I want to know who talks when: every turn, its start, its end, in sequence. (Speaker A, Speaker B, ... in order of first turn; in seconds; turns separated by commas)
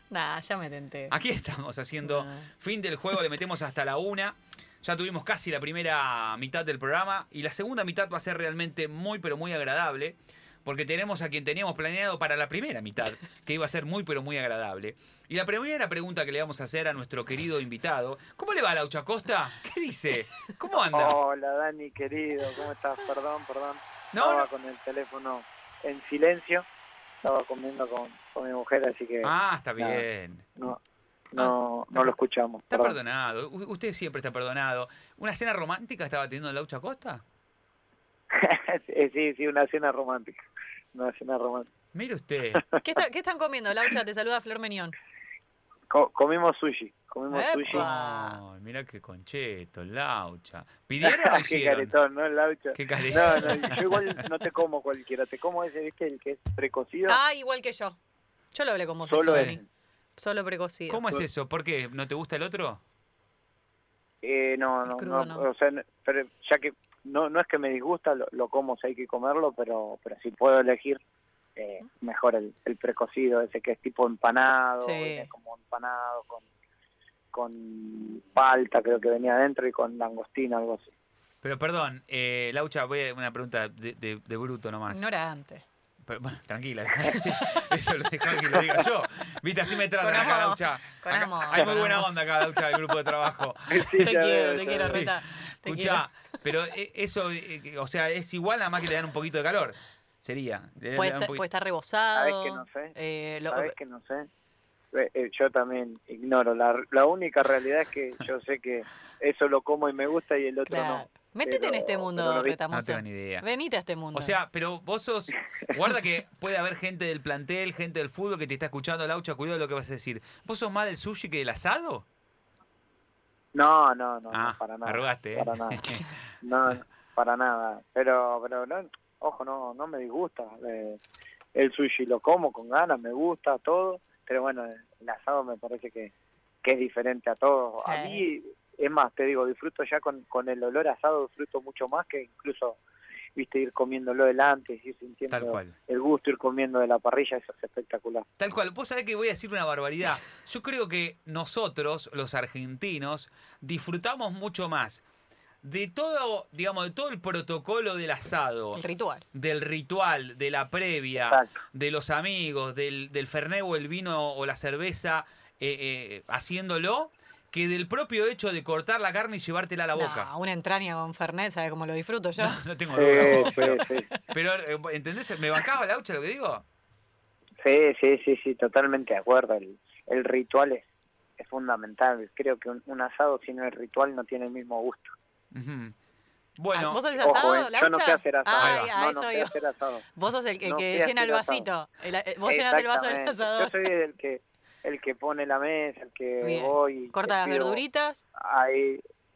Speaker A: 0.1-1.1, Speaker B: 1.1-21.2, Speaker A: 2.0-2.5, Speaker C: 20.7-26.7, Speaker B: 24.1-24.5, Speaker C: 27.2-30.0, Speaker B: 29.2-30.5, Speaker C: 31.3-33.0, Speaker B: 31.4-32.1, Speaker B: 32.7-37.2, Speaker C: 38.3-40.4, Speaker C: 40.9-41.7, Speaker B: 41.9-42.6, Speaker A: 42.8-45.0, Speaker C: 45.9-47.9, Speaker A: 47.3-48.4, Speaker B: 47.7-51.9, Speaker C: 51.0-57.2, Speaker B: 52.8-54.2, Speaker A: 57.1-58.0, Speaker A: 58.5-59.6, Speaker C: 59.1-59.6, Speaker B: 59.3-59.6, Speaker A: 60.2-61.0, Speaker B: 60.9-62.8, Speaker C: 64.2-71.0, Speaker A: 64.9-65.5, Speaker C: 71.6-76.4, Speaker A: 74.8-75.3, Speaker C: 77.3-80.9, Speaker B: 81.4-85.0, Speaker A: 84.9-85.6, Speaker B: 86.0-101.4, Speaker A: 87.1-87.6, Speaker A: 89.9-92.1, Speaker C: 93.7-95.0, Speaker A: 93.9-96.1, Speaker A: 101.0-103.8, Speaker C: 102.1-103.0, Speaker C: 103.5-104.3, Speaker C: 104.9-112.6, Speaker A: 110.7-114.3, Speaker B: 112.7-113.5, Speaker B: 114.1-122.0, Speaker C: 123.5-131.0, Speaker B: 124.3-126.0, Speaker C: 131.5-136.1, Speaker C: 136.6-142.8, Speaker A: 137.8-138.2, Speaker C: 143.3-148.2, Speaker B: 145.3-145.8, Speaker B: 148.4-155.0, Speaker B: 155.6-158.8, Speaker A: 158.8-159.2, Speaker B: 159.3-170.3, Speaker C: 161.2-161.5, Speaker A: 170.0-172.6, Speaker B: 172.4-176.6, Speaker C: 172.9-174.1, Speaker A: 173.1-174.1, Speaker C: 177.6-180.8, Speaker C: 181.4-185.1, Speaker B: 185.5-185.9, Speaker B: 186.6-187.0, Speaker A: 186.7-189.5, Speaker C: 187.2-190.0, Speaker B: 188.6-188.9, Speaker A: 190.2-193.7, Speaker C: 190.6-191.7, Speaker C: 192.5-197.8, Speaker A: 196.4-198.2, Speaker C: 198.3-199.0